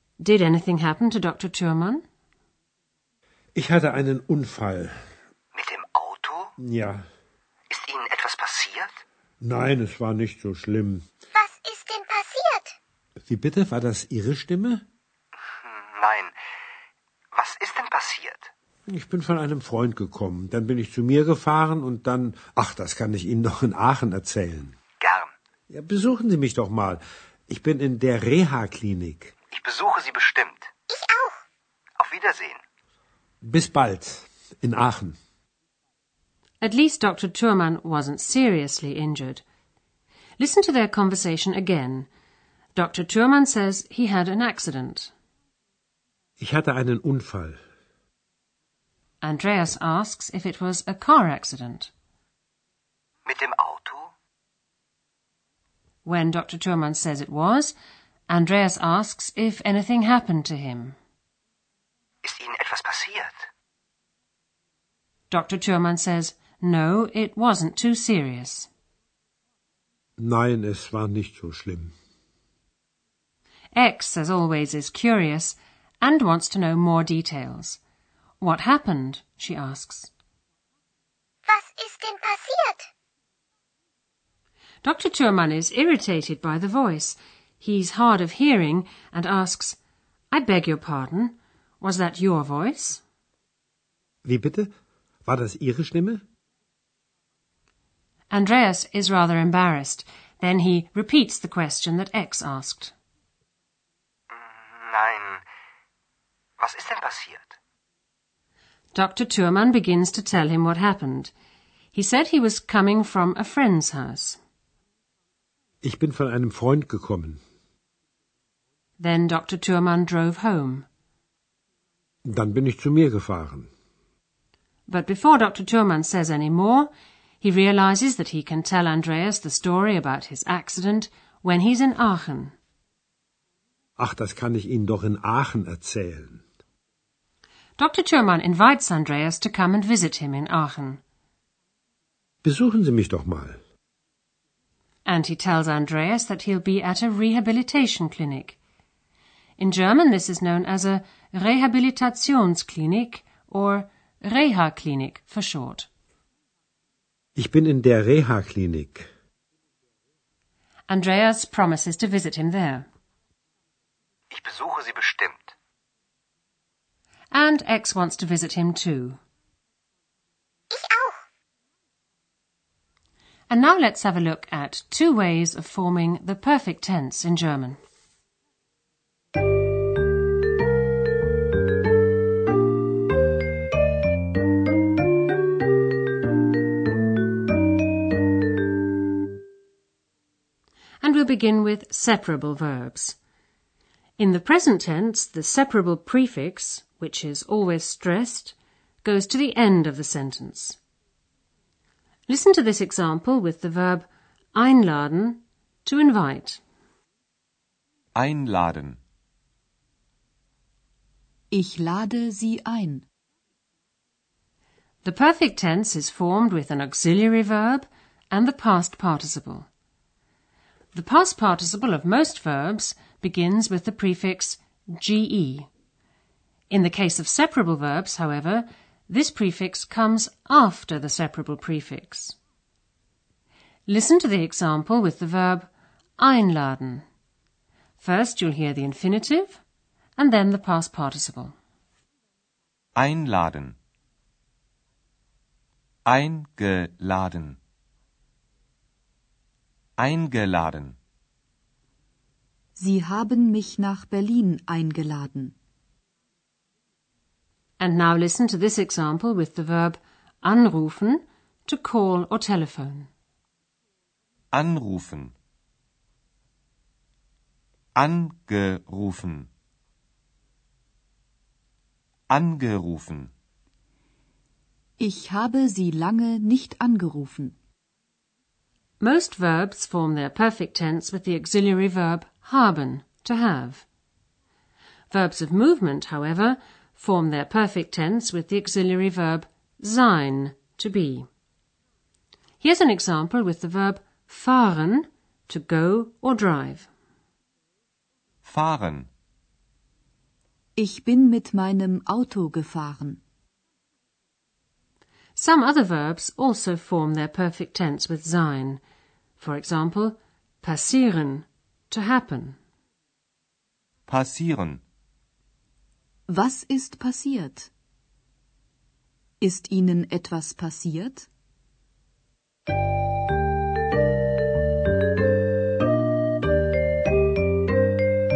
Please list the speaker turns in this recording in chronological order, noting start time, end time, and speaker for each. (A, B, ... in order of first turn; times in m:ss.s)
0:00.2-0:02.0 A
0:03.5-0:05.0 B
0:05.5-0:06.5 C
0:06.6-0:07.0 B
0:07.7-0:09.0 C
0:09.4-0:11.0 B
0:11.3-0:12.7 D
0:13.3-0:14.8 B
0:15.6-0:16.3 C
0:17.3-0:18.5 C
0:18.9-0:24.8 B
0:25.0-0:25.3 C
0:25.7-0:29.3 B
0:29.5-0:30.7 C
0:30.9-0:31.4 D
0:32.0-0:32.6 C
0:33.4-0:35.2 B
0:36.6-0:39.4 A
0:40.4-0:42.1 A
0:42.7-0:45.1 A
0:46.4-0:47.6 B
0:49.2-0:51.9 A
0:53.2-0:54.1 C
0:56.0-0:57.7 A
0:58.3-1:01.0 A
1:02.2-1:03.3 C
1:05.3-1:08.7 A
1:10.2-1:11.9 B
1:13.7-1:17.8 A
1:18.4-1:20.1 A
1:21.5-1:22.9 D
1:24.8-1:29.8 A
1:30.3-1:33.0 A
1:34.2-1:34.7 B
1:35.2-1:36.2 B
1:38.3-1:42.9 A
1:44.3-1:45.4 C
1:46.6-1:47.5 C
1:48.9-1:51.3 A
1:51.9-1:54.4 A
1:55.8-1:57.4 B
1:59.0-2:00.8 A
2:02.3-2:03.7 B
2:04.9-2:06.9 A
2:07.4-2:12.5 A
2:14.0-2:16.4 B
2:17.8-2:21.0 A
2:22.4-2:23.6 B
2:25.0-2:28.6 A
2:29.6-2:35.9 A
2:37.4-2:39.1 B
2:40.9-2:42.8 A
2:44.3-2:45.5 C
2:47.3-2:49.2 A
2:50.7-2:51.2 D
2:53.5-2:57.8 A
3:11.0-3:13.2 A
3:14.2-3:20.8 A
3:22.3-3:26.6 A
3:28.1-3:29.0 E
3:31.5-3:33.0 F
3:35.0-3:39.7 A
3:40.9-3:45.7 A
3:46.7-3:52.4 A
3:53.9-3:57.0 A
3:58.0-3:59.6 A
4:00.2-4:01.5 A
4:03.0-4:03.8 E
4:06.0-4:07.6 E
4:10.0-4:11.0 E
4:12.8-4:15.5 F
4:17.8-4:23.1 A
4:24.5-4:25.3 E
4:28.0-4:29.5 E
4:32.3-4:33.3 E
4:35.0-4:37.6 F
4:39.0-4:43.8 A
4:45.1-4:51.2 A
4:52.6-4:56.9 A
4:58.4-4:59.1 E
5:00.8-5:03.2 F
5:05.4-5:08.8 A
5:09.4-5:12.6 A
5:14.1-5:14.8 E
5:16.3-5:17.7 F
5:19.4-5:21.3 F